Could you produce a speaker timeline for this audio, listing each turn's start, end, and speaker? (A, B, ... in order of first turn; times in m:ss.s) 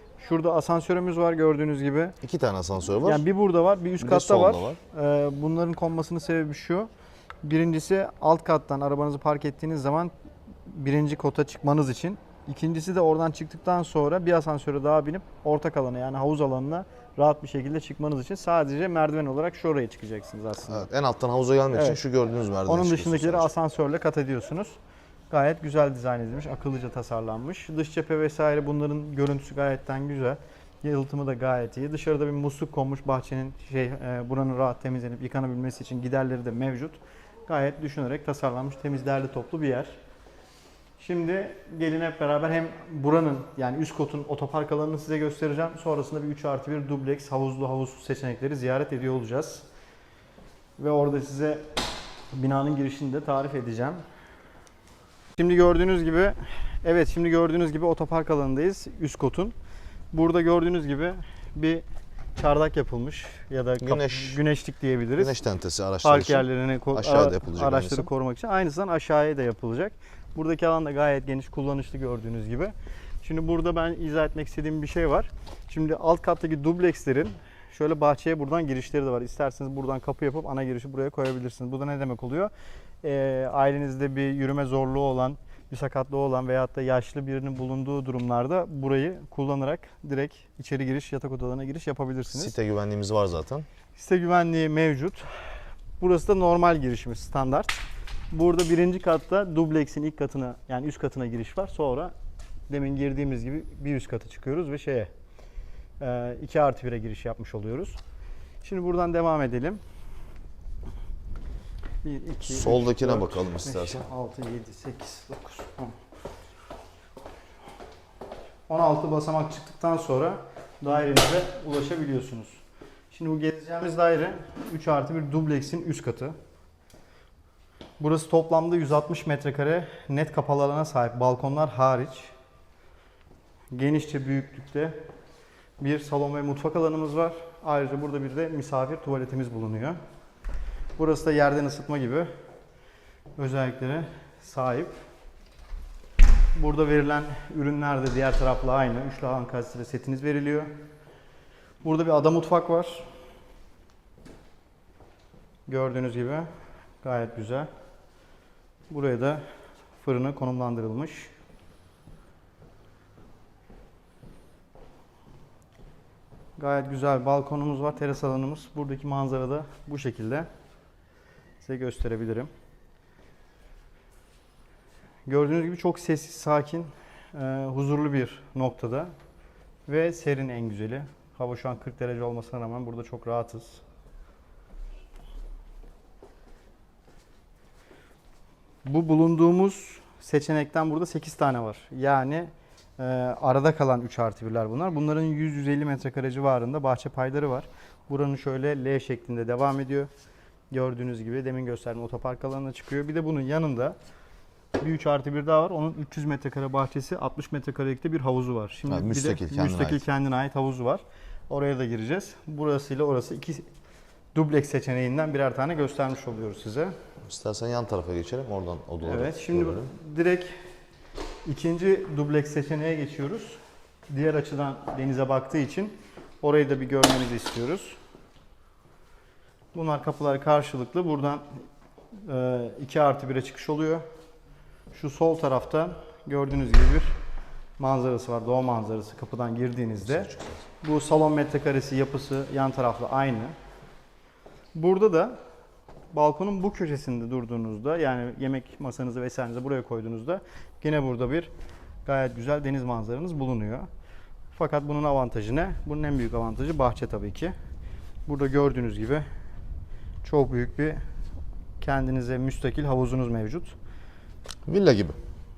0:00.2-0:02.2 A
0:02.2-0:03.2 B
0:03.0-0:06.9 A
0:04.0-0:04.8 B
0:07.4-0:10.1 A
0:10.7-0:20.8 A
0:20.7-0:23.5 B
0:21.7-0:22.0 A
0:22.7-0:24.8 A
0:25.3-0:40.0 A
0:41.0-0:49.6 A
0:50.8-0:51.7 A
0:52.3-0:54.0 A
0:55.4-0:59.6 A
1:00.1-1:01.8 A
1:02.4-1:05.4 A
1:03.8-1:04.4 B
1:05.2-1:08.1 B
1:06.0-1:22.5 A
1:23.0-1:32.6 A
1:32.3-1:33.7 B
1:34.0-1:35.4 A
1:36.0-1:42.1 A
1:42.7-1:45.1 A
1:46.0-1:48.0 A
1:48.6-1:49.8 A
1:52.0-1:56.0 A
1:52.5-1:54.1 B
1:58.7-2:06.4 A
2:08.0-2:12.3 A
2:13.7-2:15.0 A
2:15.8-2:20.0 A
2:21.0-2:22.3 A
2:23.4-2:25.0 A
2:26.6-2:30.8 A
2:31.8-2:33.1 A
2:35.7-2:36.5 A
2:37.0-2:37.7 A
2:38.9-2:39.4 A
2:40.0-2:41.3 A
2:46.6-2:50.5 A
2:51.6-2:52.5 A
2:55.3-2:59.1 A
2:59.9-3:03.8 A
3:08.8-3:20.1 A
3:20.7-3:24.0 A
3:24.8-3:33.7 A
3:28.9-3:30.0 B
3:34.4-3:36.9 A
3:37.3-3:39.9 B
3:39.0-3:40.6 A
3:41.4-3:48.0 A
3:49.7-3:51.4 A
3:52.2-3:54.0 A
3:54.9-3:57.2 A
3:57.8-4:00.3 A
4:00.0-4:00.6 B
4:00.8-4:03.5 A
4:04.8-4:05.4 A
4:06.1-4:11.5 A
4:12.0-4:13.9 A
4:14.6-4:17.5 A
4:18.3-4:19.2 A
4:20.2-4:21.0 A
4:21.8-4:23.7 A
4:24.7-4:25.2 B